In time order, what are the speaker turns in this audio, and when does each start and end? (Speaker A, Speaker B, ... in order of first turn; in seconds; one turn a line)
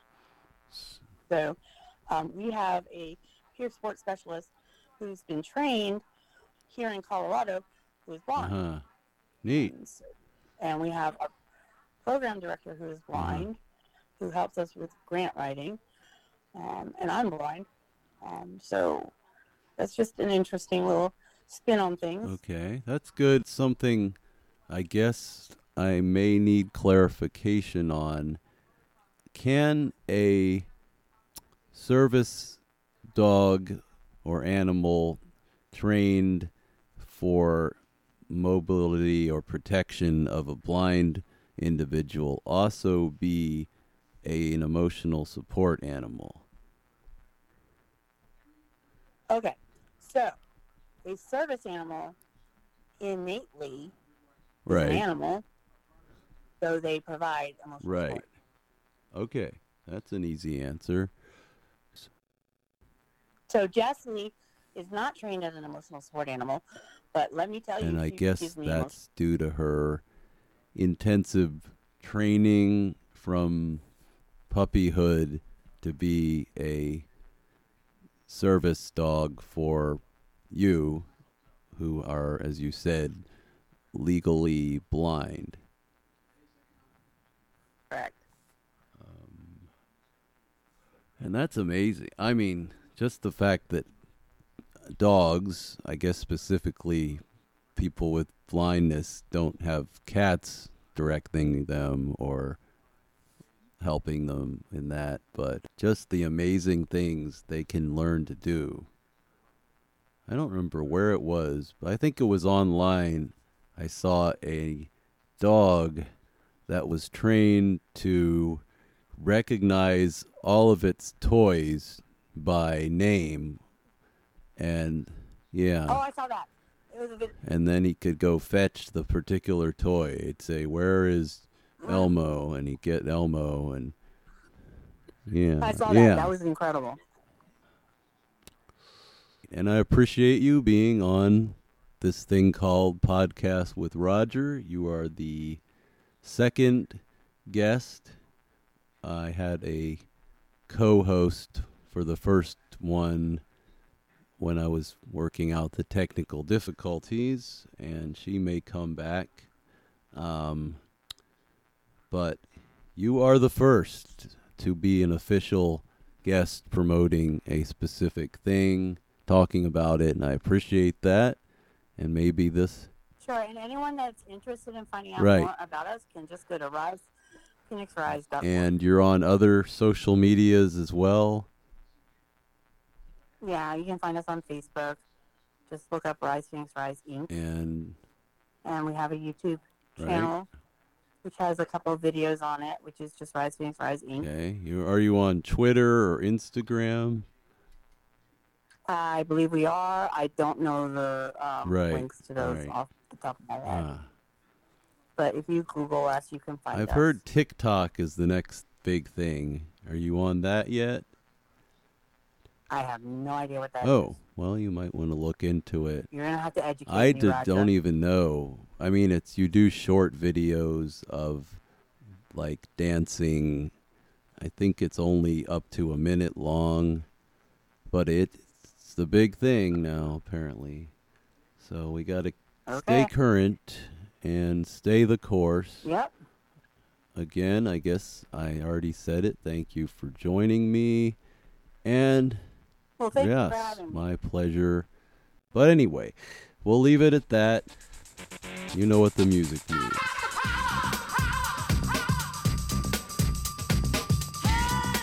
Speaker A: 0.7-1.0
Speaker B: 1.3-1.6
Speaker B: 2.1-6.0
Speaker B: 6.7-8.6
Speaker A: 8.3-8.8
Speaker A: 9.4-9.7
Speaker B: 9.5-10.0
Speaker B: 10.6-11.3
Speaker B: 12.0-13.6
Speaker A: 13.1-13.5
Speaker B: 14.2-15.8
Speaker B: 16.5-17.6
Speaker B: 18.2-19.1
Speaker B: 19.8-22.4
Speaker A: 22.2-24.1
Speaker A: 24.7-28.4
Speaker A: 29.3-30.7
Speaker A: 31.7-32.6
Speaker A: 33.1-35.2
Speaker A: 35.7-43.7
Speaker A: 44.2-46.5
Speaker B: 49.3-50.3
Speaker B: 51.0-52.1
Speaker B: 53.0-53.9
Speaker A: 54.6-55.0
Speaker B: 54.7-55.4
Speaker B: 56.6-58.2
Speaker A: 57.8-58.2
Speaker A: 59.1-61.1
Speaker B: 63.5-68.9
Speaker A: 67.8-70.0
Speaker A: 70.7-73.8
Speaker A: 74.5-77.0
Speaker A: 78.3-81.1
Speaker A: 81.7-83.2
Speaker A: 83.9-85.6
Speaker B: 87.9-88.2
Speaker A: 89.0-89.7
Speaker A: 91.2-93.9
Speaker A: 94.9-97.2
Speaker A: 97.8-102.6
Speaker A: 103.8-108.9
Speaker A: 110.3-116.1
Speaker A: 116.7-118.6
Speaker A: 119.2-123.6
Speaker A: 124.6-126.0
Speaker B: 125.9-127.3
Speaker A: 127.4-133.9
Speaker B: 131.8-132.1
Speaker A: 135.3-136.3
Speaker B: 135.6-137.0
Speaker A: 139.5-145.6
Speaker A: 146.2-148.1
Speaker A: 149.0-150.1
Speaker A: 150.7-153.4
Speaker A: 154.4-159.5
Speaker A: 160.1-160.8
Speaker A: 162.1-171.4
Speaker A: 172.0-172.9
Speaker B: 173.2-177.1
Speaker A: 175.2-175.5
Speaker B: 177.7-178.7
Speaker A: 178.4-181.5
Speaker B: 183.4-185.0
Speaker B: 185.7-187.3
Speaker A: 187.3-188.0
Speaker B: 188.6-190.5
Speaker A: 190.0-190.3
Speaker B: 191.2-194.3
Speaker A: 194.2-197.3
Speaker B: 198.9-203.8
Speaker A: 201.6-202.7
Speaker A: 203.7-204.1
Speaker B: 205.2-207.2
Speaker A: 206.7-211.1
Speaker B: 212.7-214.1
Speaker A: 213.8-216.1
Speaker B: 216.1-217.7
Speaker A: 216.9-221.6
Speaker A: 222.3-223.7
Speaker A: 224.4-227.1
Speaker A: 227.9-230.9
Speaker A: 231.6-235.9
Speaker B: 232.7-233.1
Speaker B: 235.8-236.1
Speaker A: 237.2-241.2
Speaker A: 241.8-242.5
Speaker B: 243.0-244.0
Speaker A: 243.1-244.9
Speaker A: 245.5-247.7
Speaker A: 248.7-250.2